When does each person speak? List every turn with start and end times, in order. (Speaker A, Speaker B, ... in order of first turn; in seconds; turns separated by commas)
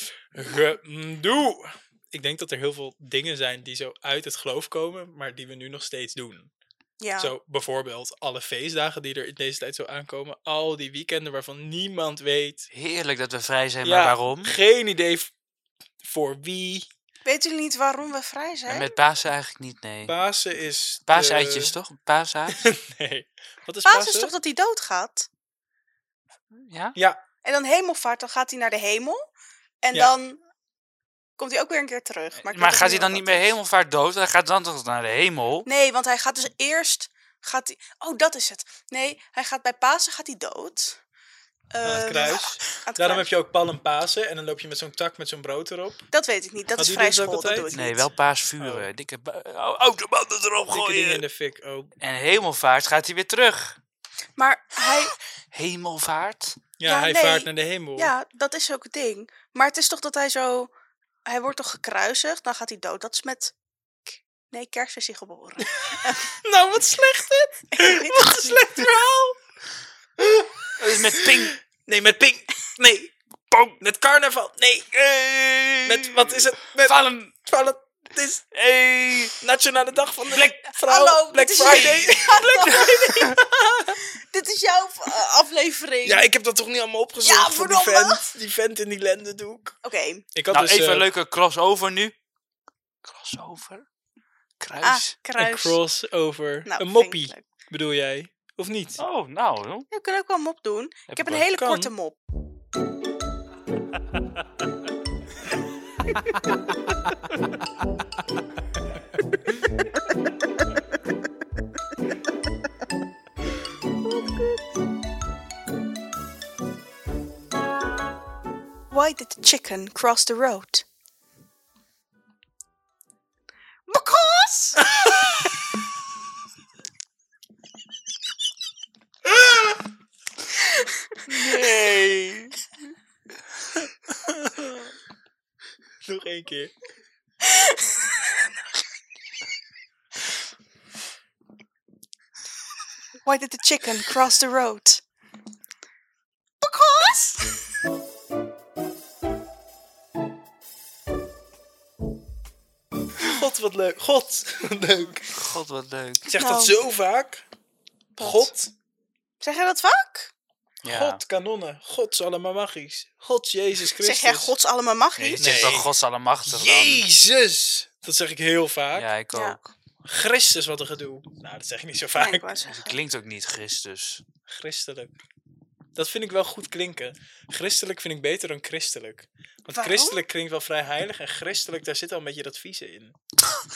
Speaker A: 0.3-6.5, Speaker B: 7.0-7.3, Speaker A: 7.2-12.7, Speaker C: 12.7-14.5, Speaker A: 13.8-15.3, Speaker A: 16.0-16.9, Speaker B: 17.2-18.9, Speaker C: 18.7-20.1, Speaker A: 20.1-21.8, Speaker C: 21.1-22.7, Speaker A: 22.5-24.3, Speaker B: 23.9-25.3, Speaker C: 26.5-27.0, Speaker A: 26.9-27.2, Speaker B: 27.4-29.3, Speaker B: 29.8-30.4, Speaker B: 31.4-33.5, Speaker C: 32.4-35.7, Speaker B: 35.7-41.0, Speaker B: 41.7-43.3, Speaker A: 41.8-46.1, Speaker B: 46.1-48.1, Speaker A: 46.8-47.7, Speaker C: 47.7-51.2, Speaker A: 48.6-48.9, Speaker A: 50.7-52.0, Speaker C: 52.0-53.8, Speaker B: 54.4-55.1, Speaker C: 54.9-56.6, Speaker A: 56.8-58.1, Speaker B: 56.9-60.7, Speaker B: 61.2-63.5, Speaker B: 64.1-66.3, Speaker A: 65.7-69.4, Speaker B: 67.7-68.7, Speaker A: 70.2-73.2, Speaker C: 70.8-71.5, Speaker C: 73.5-73.8, Speaker A: 73.8-75.0, Speaker C: 75.0-77.3, Speaker A: 75.8-78.5, Speaker C: 78.5-79.4, Speaker A: 79.4-83.6, Speaker C: 80.3-80.7, Speaker B: 80.9-83.5, Speaker C: 81.6-82.0, Speaker B: 84.3-86.3, Speaker A: 86.0-89.8, Speaker B: 87.2-88.2, Speaker B: 89.8-90.2, Speaker A: 90.3-91.1, Speaker C: 90.5-92.1, Speaker C: 93.0-93.9, Speaker C: 94.6-95.1, Speaker B: 94.8-95.8, Speaker A: 95.4-99.0, Speaker B: 96.7-97.4, Speaker C: 99.0-99.9, Speaker B: 99.9-102.2, Speaker C: 101.1-101.7, Speaker A: 101.6-101.9, Speaker B: 118.9-120.8, Speaker B: 123.9-125.1, Speaker C: 131.3-132.5, Speaker B: 131.3-131.7, Speaker A: 133.8-134.8, Speaker A: 136.1-136.7, Speaker B: 137.4-138.3, Speaker B: 143.2-145.0, Speaker B: 146.6-147.6, Speaker A: 153.2-155.3, Speaker C: 155.3-156.3, Speaker A: 156.3-157.4, Speaker B: 156.4-156.8, Speaker A: 158.2-158.7, Speaker B: 158.2-158.5, Speaker B: 159.4-160.3, Speaker C: 160.8-161.2, Speaker A: 160.8-164.5, Speaker B: 164.0-165.6, Speaker C: 165.2-167.0, Speaker A: 165.4-165.9, Speaker A: 166.4-169.1, Speaker C: 168.9-169.7, Speaker A: 170.0-172.5, Speaker B: 172.2-173.0, Speaker C: 172.7-174.2, Speaker A: 174.5-175.1, Speaker A: 175.9-183.2, Speaker B: 179.8-180.2